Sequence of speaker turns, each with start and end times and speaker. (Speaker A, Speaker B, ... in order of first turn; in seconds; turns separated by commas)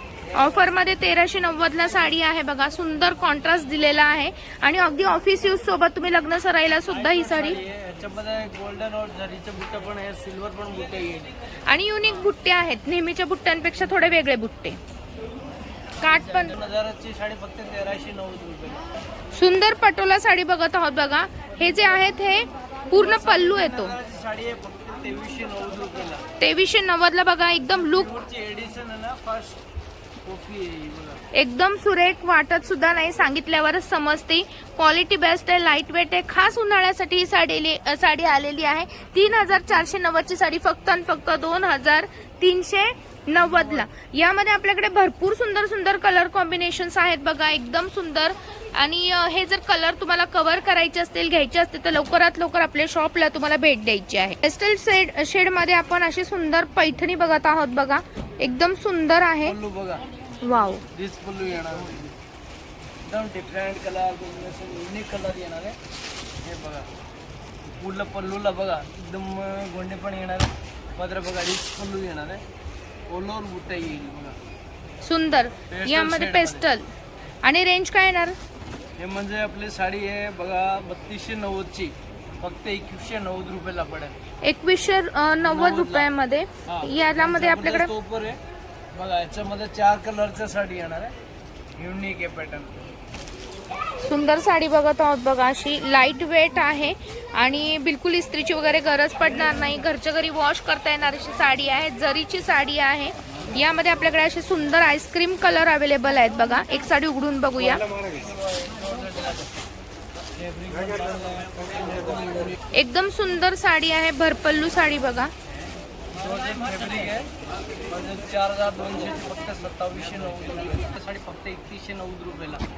Speaker A: 0.3-7.6, Speaker B: 6.8-11.3, Speaker A: 11.7-14.8, Speaker A: 16.0-16.6, Speaker B: 16.0-18.8, Speaker A: 19.3-24.0, Speaker B: 22.9-26.2, Speaker A: 26.4-28.2, Speaker B: 27.7-29.6, Speaker B: 30.2-31.2, Speaker A: 31.3-59.6, Speaker B: 59.4-60.0, Speaker A: 60.4-60.8, Speaker B: 60.9-62.1, Speaker B: 63.1-65.8, Speaker B: 66.4-66.9, Speaker B: 67.8-72.4, Speaker B: 73.1-74.4, Speaker A: 75.0-76.9, Speaker B: 75.7-76.7, Speaker A: 77.4-78.4, Speaker B: 79.0-84.2, Speaker A: 84.4-87.9, Speaker B: 85.4-86.1, Speaker B: 86.7-88.4, Speaker B: 89.0-91.1, Speaker B: 91.8-92.8, Speaker A: 94.0-107.8, Speaker B: 107.6-109.5, Speaker B: 110.4-112.6, Speaker A: 112.7-115.3, Speaker B: 116.1-117.3, Speaker B: 117.9-122.6